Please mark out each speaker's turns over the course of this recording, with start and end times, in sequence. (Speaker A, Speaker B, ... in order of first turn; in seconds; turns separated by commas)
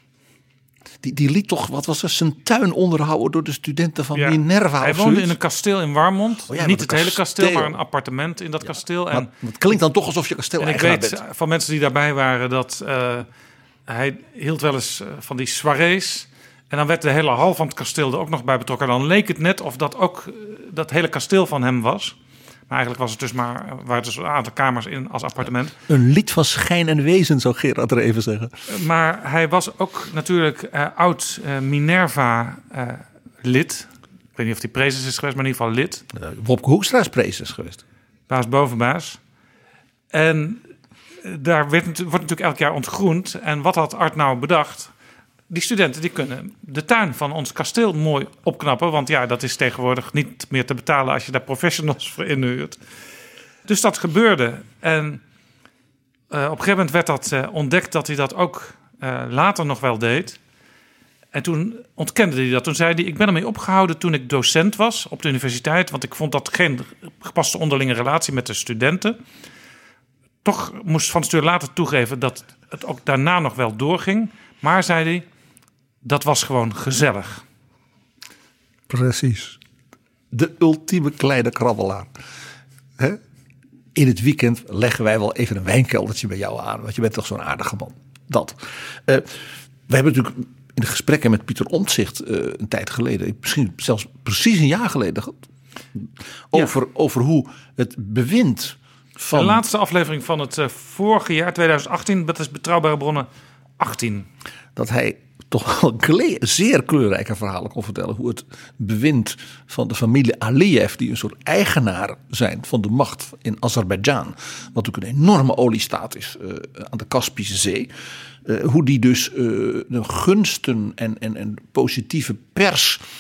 Speaker A: 1.0-5.3, Speaker B: 4.2-9.3, Speaker A: 6.5-7.8, Speaker A: 9.1-11.2, Speaker B: 10.6-13.3, Speaker B: 13.9-22.1, Speaker B: 22.7-25.8, Speaker A: 25.9-28.5, Speaker B: 28.7-36.0, Speaker A: 36.1-37.8, Speaker B: 38.3-39.2, Speaker B: 40.1-40.6, Speaker B: 41.2-44.9, Speaker B: 45.5-52.8, Speaker B: 53.7-55.2, Speaker B: 56.3-60.4, Speaker B: 61.3-69.2, Speaker B: 70.4-75.2, Speaker B: 76.0-77.4, Speaker A: 78.9-79.6, Speaker A: 80.3-82.1, Speaker A: 84.0-95.4, Speaker A: 96.0-99.6, Speaker B: 99.3-103.3, Speaker B: 103.8-104.3, Speaker A: 104.8-117.9, Speaker A: 118.5-123.0